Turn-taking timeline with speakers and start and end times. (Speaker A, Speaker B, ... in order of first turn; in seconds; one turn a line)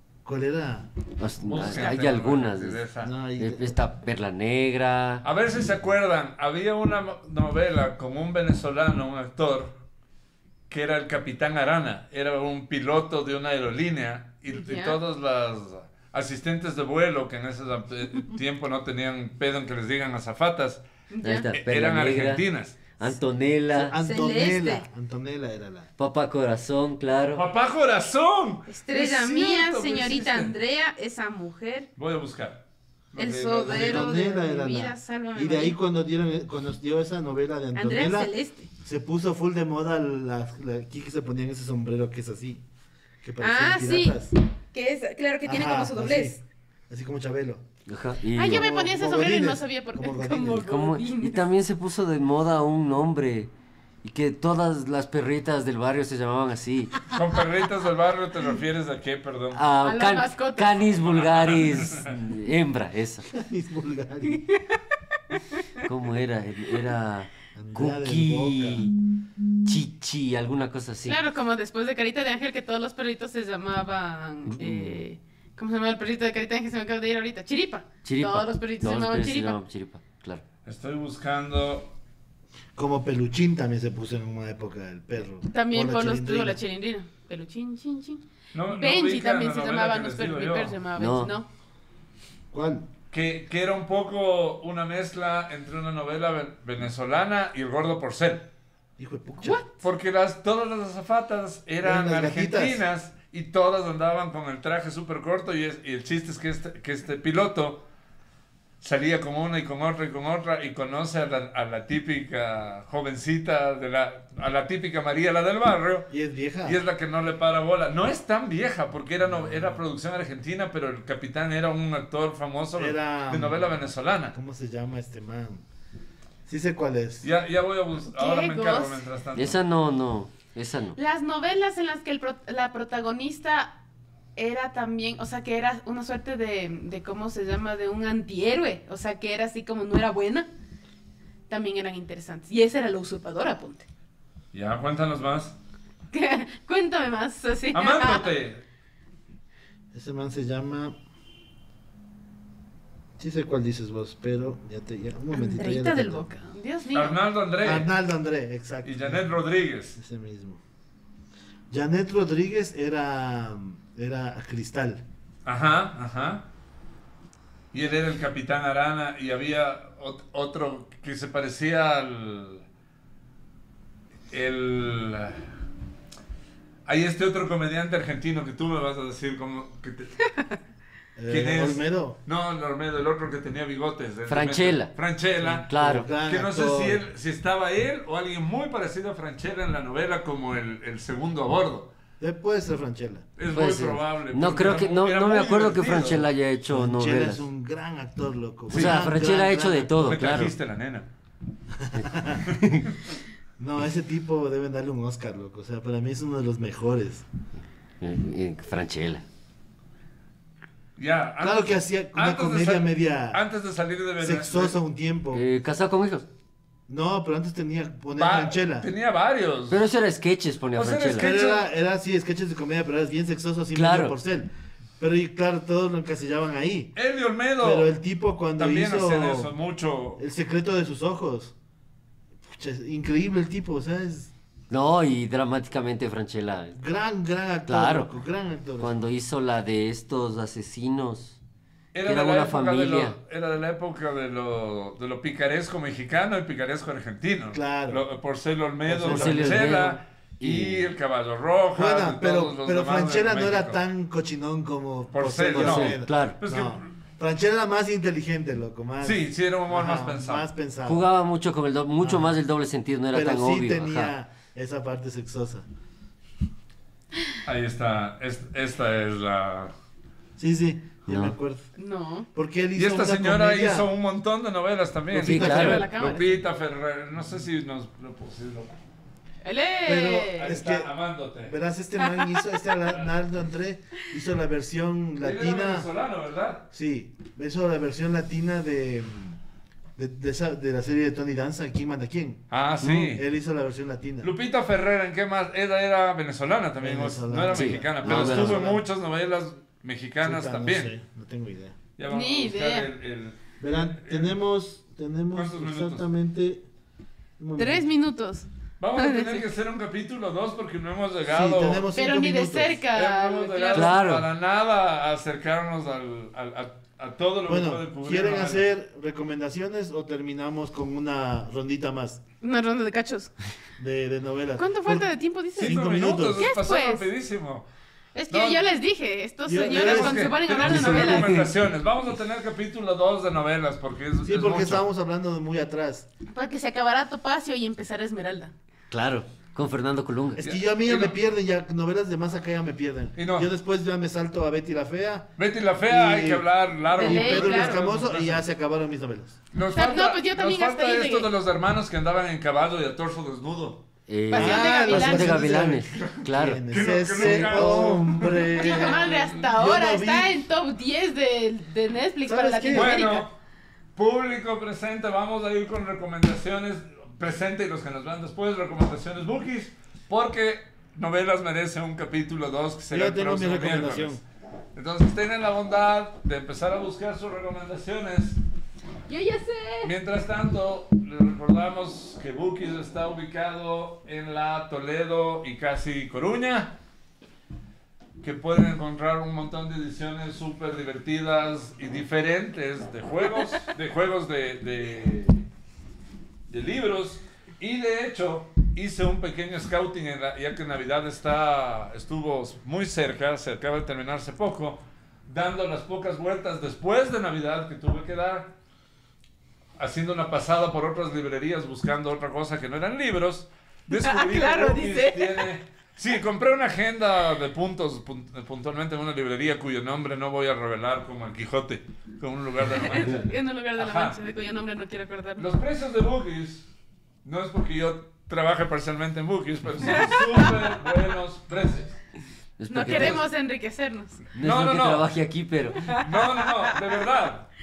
Speaker A: 0.2-0.9
Speaker B: 1.2-2.8
Speaker C: 1.5-3.1
Speaker A: 3.0-3.8
Speaker B: 3.4-5.2
Speaker C: 5.2-9.8
Speaker C: 10.7-20.9
Speaker D: 14.5-15.0
Speaker D: 21.1-21.5
Speaker B: 21.2-22.4
Speaker C: 21.5-22.8
Speaker B: 23.0-23.9
Speaker A: 23.7-25.9
Speaker D: 23.9-24.9
Speaker B: 26.0-27.4
Speaker C: 27.3-30.5
Speaker D: 28.7-31.9
Speaker C: 32.0-32.6
Speaker C: 33.1-34.2
Speaker D: 33.1-35.8
Speaker A: 33.6-42.6
Speaker D: 37.8-38.7
Speaker A: 43.2-44.3
Speaker D: 43.4-46.4
Speaker A: 45.5-47.6
Speaker B: 47.9-48.6
Speaker D: 48.3-51.5
Speaker A: 48.4-50.7
Speaker B: 50.6-53.5
Speaker B: 54.0-57.0
Speaker C: 57.1-59.6
Speaker B: 59.5-63.3
Speaker D: 59.8-60.9
Speaker C: 60.8-62.1
Speaker A: 63.3-64.5
Speaker D: 64.2-64.8
Speaker B: 65.8-69.0
Speaker A: 67.5-68.8
Speaker B: 69.7-71.2
Speaker D: 71.0-79.6
Speaker B: 74.5-75.0
Speaker B: 78.0-80.4
Speaker C: 80.7-81.9
Speaker A: 82.8-86.6
Speaker D: 85.5-91.5
Speaker C: 88.5-90.8
Speaker B: 91.0-91.3
Speaker A: 92.5-92.9
Speaker C: 93.1-98.5
Speaker A: 99.0-99.6
Speaker D: 99.4-99.7
Speaker C: 99.8-107.8
Speaker A: 101.8-102.8
Speaker C: 108.8-116.1
Speaker A: 116.1-116.8
Speaker C: 116.6-124.3
Speaker A: 119.3-119.8
Speaker A: 122.8-123.8
Speaker A: 124.3-125.6
Speaker A: 126.5-127.3
Speaker C: 127.2-129.6
Speaker D: 128.1-129.1
Speaker B: 129.3-131.0
Speaker D: 130.9-133.7
Speaker D: 134.4-140.5
Speaker D: 141.5-143.9
Speaker C: 144.5-145.6
Speaker D: 146.1-148.3
Speaker C: 147.7-148.6
Speaker A: 149.9-150.9
Speaker A: 153.2-156.3
Speaker D: 155.3-157.2
Speaker C: 156.9-157.9
Speaker A: 157.6-159.3
Speaker C: 158.8-160.0
Speaker A: 160.0-160.6
Speaker A: 161.7-165.0
Speaker C: 165.4-166.5
Speaker C: 167.7-172.7
Speaker C: 174.3-175.5
Speaker C: 176.9-180.2
Speaker A: 181.2-182.2
Speaker C: 181.3-185.7
Speaker B: 184.3-184.9
Speaker A: 185.4-187.0
Speaker B: 185.7-186.1
Speaker C: 186.2-191.9
Speaker A: 192.2-193.3
Speaker C: 193.4-196.3
Speaker B: 193.5-197.4
Speaker A: 196.7-200.0
Speaker C: 198.7-199.1
Speaker B: 198.7-200.5
Speaker C: 200.0-201.1
Speaker A: 201.7-202.5
Speaker C: 202.5-202.9
Speaker B: 202.5-202.8
Speaker A: 203.6-207.2
Speaker B: 208.0-209.2
Speaker C: 211.0-214.8
Speaker A: 211.4-213.4
Speaker A: 214.2-215.4
Speaker B: 215.3-216.3
Speaker A: 216.9-218.9
Speaker C: 218.2-219.8
Speaker B: 219.7-221.3
Speaker C: 220.8-221.7
Speaker A: 221.2-224.5
Speaker B: 223.8-224.2
Speaker A: 225.0-226.9
Speaker C: 227.0-228.0
Speaker A: 227.6-229.5
Speaker C: 228.6-230.2
Speaker A: 230.2-231.5
Speaker A: 232.4-234.3
Speaker B: 234.7-236.8
Speaker A: 236.8-239.0
Speaker B: 237.7-238.1
Speaker B: 238.8-241.4
Speaker C: 241.9-253.8
Speaker B: 242.1-243.2
Speaker A: 247.5-248.0
Speaker A: 248.9-249.8
Speaker B: 249.0-250.9
Speaker A: 251.8-261.1
Speaker C: 255.1-256.9
Speaker B: 255.5-256.4
Speaker C: 259.0-260.5
Speaker B: 260.9-264.1
Speaker A: 262.0-262.4
Speaker A: 263.1-265.7
Speaker C: 267.4-269.7
Speaker A: 270.4-271.7
Speaker B: 271.1-271.4
Speaker D: 271.8-272.3
Speaker A: 272.4-273.9
Speaker C: 272.8-278.7
Speaker B: 275.2-276.2
Speaker A: 275.2-276.1
Speaker D: 275.2-276.4
Speaker D: 279.4-280.5
Speaker A: 279.8-285.9
Speaker C: 280.3-281.6
Speaker D: 282.0-282.4
Speaker C: 285.2-286.6
Speaker A: 286.7-289.4
Speaker A: 290.0-294.3
Speaker C: 292.5-293.2
Speaker C: 294.2-300.9
Speaker A: 296.8-298.8
Speaker B: 297.5-298.6
Speaker A: 300.2-301.8
Speaker C: 302.0-304.4
Speaker D: 302.1-302.9
Speaker A: 303.6-306.6
Speaker C: 305.3-306.1
Speaker A: 307.4-307.8
Speaker D: 307.6-309.4
Speaker C: 308.8-311.9
Speaker A: 311.3-312.8
Speaker D: 311.9-314.0
Speaker C: 312.9-318.7
Speaker B: 313.7-314.3
Speaker A: 317.5-322.2
Speaker D: 322.4-323.3
Speaker A: 323.8-326.5
Speaker D: 324.6-327.1
Speaker C: 325.6-327.7
Speaker D: 328.1-331.5
Speaker C: 328.3-328.6
Speaker A: 329.5-330.4
Speaker C: 329.6-334.9
Speaker B: 330.6-331.5
Speaker A: 334.2-336.1
Speaker D: 336.3-338.5
Speaker B: 338.9-340.4
Speaker A: 340.4-345.3
Speaker C: 340.4-341.2
Speaker C: 343.2-343.5
Speaker C: 345.4-348.4
Speaker A: 345.9-349.4
Speaker D: 346.9-347.8
Speaker C: 349.5-353.8
Speaker D: 349.7-351.3
Speaker B: 354.1-357.9
Speaker D: 354.3-355.7
Speaker A: 354.3-360.4
Speaker C: 355.9-359.5
Speaker D: 358.4-363.3
Speaker A: 362.3-362.9
Speaker C: 362.7-363.3
Speaker C: 363.9-374.2
Speaker A: 372.9-374.2
Speaker C: 374.8-378.4
Speaker D: 379.1-379.9
Speaker C: 379.8-386.8
Speaker C: 388.2-395.4
Speaker C: 396.5-408.5
Speaker C: 409.8-424.2
Speaker D: 413.9-415.5
Speaker D: 422.7-425.5
Speaker C: 425.4-426.7
Speaker C: 427.2-432.0
Speaker D: 429.8-430.6
Speaker B: 432.6-433.2
Speaker D: 432.7-434.2
Speaker C: 432.8-433.2
Speaker B: 434.3-436.0
Speaker C: 434.4-435.1
Speaker C: 435.9-437.5
Speaker D: 435.9-436.6